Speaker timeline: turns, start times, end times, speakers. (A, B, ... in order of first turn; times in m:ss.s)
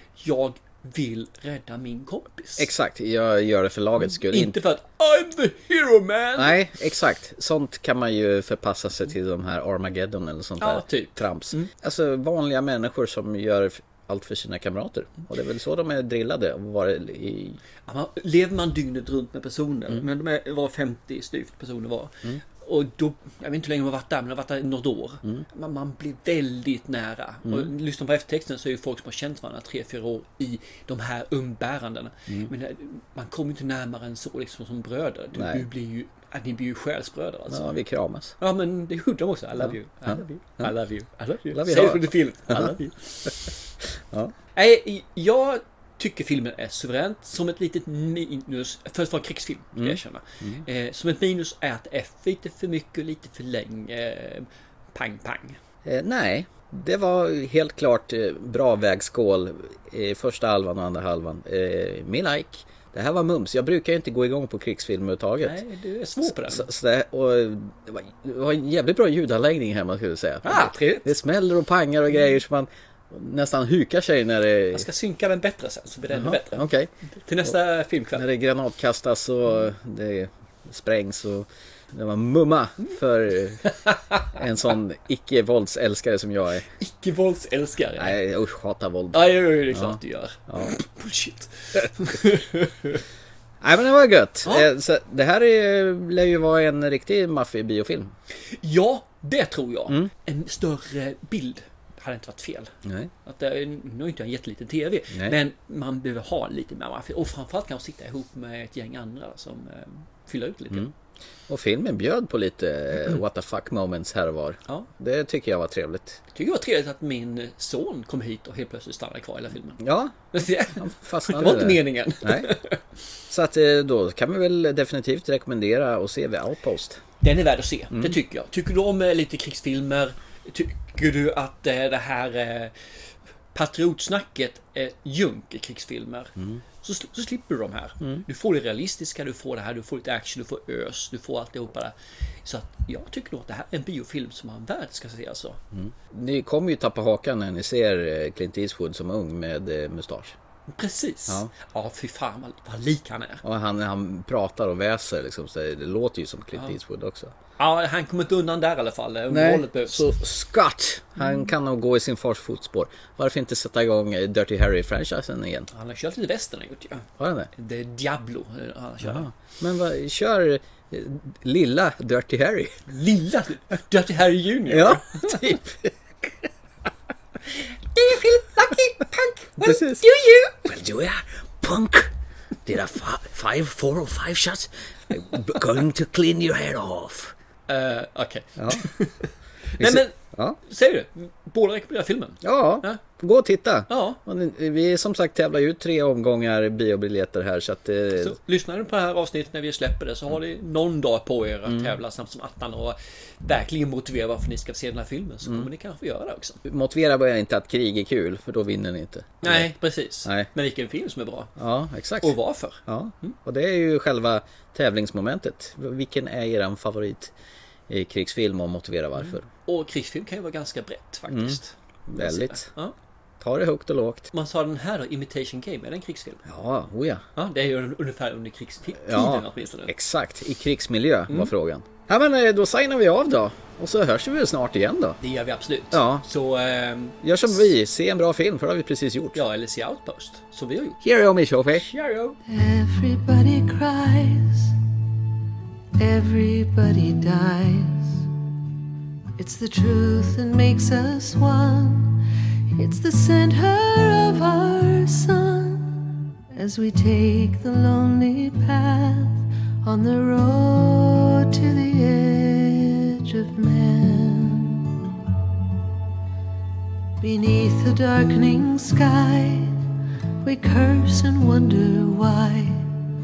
0:00.2-0:02.7 A
0:02.6-0:04.6 B
0:04.2-0:06.6 A
0:06.4-0:17.6 B
0:10.6-0:11.7 A
0:17.9-0:37.8 A
0:35.3-0:35.7 B
0:37.5-0:38.4 B
0:38.4-0:43.3 A
0:39.6-0:40.7 B
0:41.5-0:43.3 B
0:44.6-0:55.6 A
0:49.8-0:50.6 B
0:55.8-1:05.6 B
1:05.4-1:06.7 A
1:06.2-1:14.9 B
1:10.4-1:11.1 A
1:14.7-1:16.6 A
1:16.1-1:16.9 B
1:17.2-1:18.3 A
1:18.1-1:23.7 B
1:24.3-1:26.6 B
1:26.8-1:28.2 A
1:28.0-1:30.7 B
1:29.1-1:33.0 A
1:33.6-1:38.1 B
1:38.6-1:42.7 A
1:42.8-1:43.1 B
1:43.2-1:50.9 A
1:45.1-1:45.4 B
1:51.5-1:56.2 B
1:56.3-2:02.8 A
1:59.8-2:00.2 B
2:00.8-2:02.5 B
2:03.3-2:07.0 B
2:07.2-2:12.7 A
2:07.9-2:08.2 B
2:13.5-2:21.9 A
2:22.4-2:25.6 A
2:25.7-2:30.4 B
2:30.7-2:33.4 A
2:33.4-2:37.3 B
2:37.6-2:40.1 A
2:39.3-2:45.7 B
2:45.7-2:49.3 A
2:47.2-2:47.5 B
2:49.0-2:52.8 B
2:52.9-2:55.3 A
2:54.7-2:55.9 B
2:58.0-3:00.6 A
2:59.6-3:02.1 B
3:02.6-3:07.3 B
3:07.7-3:13.0 A
3:08.6-3:08.8 B
3:09.8-3:10.6 B
3:12.4-3:18.4 B
3:13.9-3:14.2 A
3:18.1-3:26.6 A
3:21.7-3:22.0 B
3:25.4-3:25.7 B
3:26.6-3:29.7 B
3:29.4-3:31.5 A
3:31.6-3:37.3 B
3:32.2-3:33.4 A
3:37.9-3:39.4 B
3:39.7-3:43.0 A
3:41.3-3:42.7 B
3:43.4-3:44.3 B
3:44.3-3:46.4 A
3:46.5-3:47.2 B
3:47.4-3:49.9 A
3:49.0-3:55.2 B
3:55.2-3:57.2 A
3:55.9-3:56.2 B
3:57.2-3:59.4 B
3:59.4-4:01.0 A
4:01.0-4:01.9 B
4:01.7-4:02.4 A
4:02.5-4:04.8 C
4:06.0-4:08.3 C
4:09.4-4:12.1 C
4:12.7-4:16.0 C
4:16.5-4:24.9 C
4:27.2-4:29.8 C
4:30.4-4:32.9 C